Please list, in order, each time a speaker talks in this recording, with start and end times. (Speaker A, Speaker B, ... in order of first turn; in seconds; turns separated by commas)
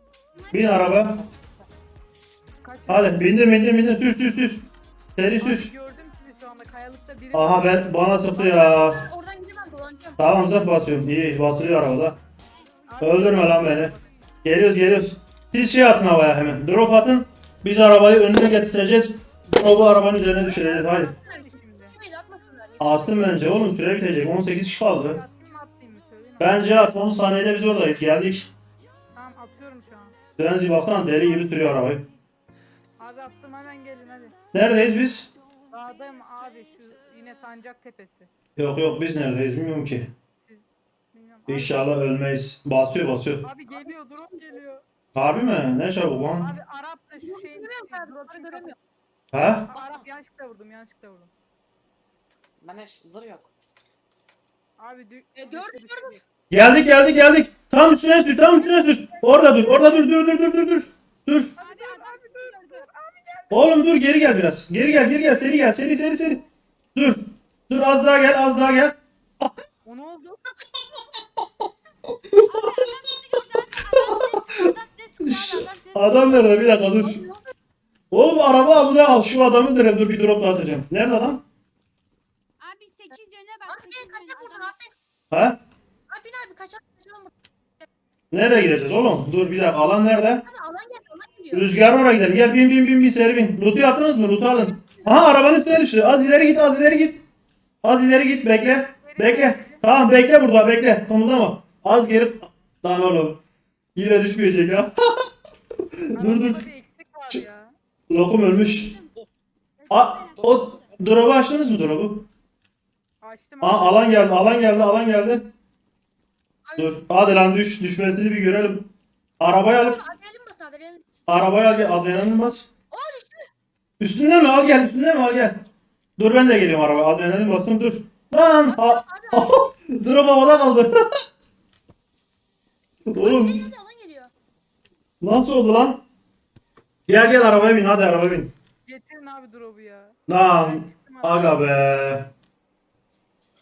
Speaker A: 0.3-1.1, Speaker B: 0.5-1.2, Speaker C: 1.1-1.5, Speaker D: 2.6-3.3, Speaker B: 2.9-5.7, Speaker D: 5.4-7.8, Speaker B: 7.3-9.1, Speaker E: 8.3-10.2, Speaker B: 10.2-12.2, Speaker D: 12.9-14.1, Speaker B: 13.0-13.9, Speaker B: 14.4-21.1, Speaker D: 20.4-21.9, Speaker E: 21.2-23.6, Speaker B: 22.8-25.2, Speaker D: 24.9-26.8, Speaker B: 26.4-28.5, Speaker D: 29.1-30.1, Speaker B: 30.4-32.1, Speaker D: 33.0-34.4, Speaker B: 34.5-35.3, Speaker D: 35.7-38.3, Speaker B: 38.5-40.1, Speaker D: 40.4-41.9, Speaker B: 41.5-43.5, Speaker D: 43.4-44.8, Speaker B: 45.1-46.6, Speaker D: 46.4-48.7, Speaker E: 47.2-48.8, Speaker B: 49.3-49.7, Speaker D: 49.7-51.3, Speaker C: 49.7-50.1, Speaker C: 52.6-53.5, Speaker D: 54.8-56.2, Speaker E: 55.4-56.2, Speaker B: 56.5-61.5, Speaker E: 58.6-58.9, Speaker D: 59.2-60.0, Speaker D: 61.6-63.8, Speaker A: 61.6-62.8, Speaker B: 63.5-66.4, Speaker B: 66.9-69.5, Speaker D: 69.8-70.4, Speaker A: 72.5-76.7, Speaker B: 74.3-74.7, Speaker B: 75.2-77.2, Speaker E: 76.7-77.5, Speaker B: 78.1-81.4, Speaker A: 82.6-84.7, Speaker E: 83.7-84.9, Speaker B: 85.3-85.6, Speaker E: 86.1-87.9, Speaker B: 88.3-90.5, Speaker E: 90.5-91.7, Speaker B: 91.5-97.2, Speaker E: 94.6-95.3, Speaker B: 97.8-103.4, Speaker D: 99.0-99.8, Speaker B: 103.9-105.3, Speaker B: 105.8-106.6, Speaker D: 106.1-107.7, Speaker B: 108.1-108.9, Speaker A: 108.6-109.1, Speaker A: 109.8-110.4, Speaker B: 109.9-112.3, Speaker C: 110.3-111.0, Speaker D: 113.2-114.6, Speaker B: 113.6-115.5, Speaker E: 116.6-117.0, Speaker B: 116.8-120.0, Speaker E: 119.7-121.0, Speaker B: 121.3-122.7, Speaker E: 122.9-123.4, Speaker B: 124.0-125.6, Speaker B: 126.2-131.0, Speaker E: 128.7-129.7, Speaker B: 133.1-133.7, Speaker E: 133.2-134.3, Speaker B: 135.2-136.0, Speaker B: 137.1-138.5, Speaker D: 138.8-141.6, Speaker B: 140.3-142.3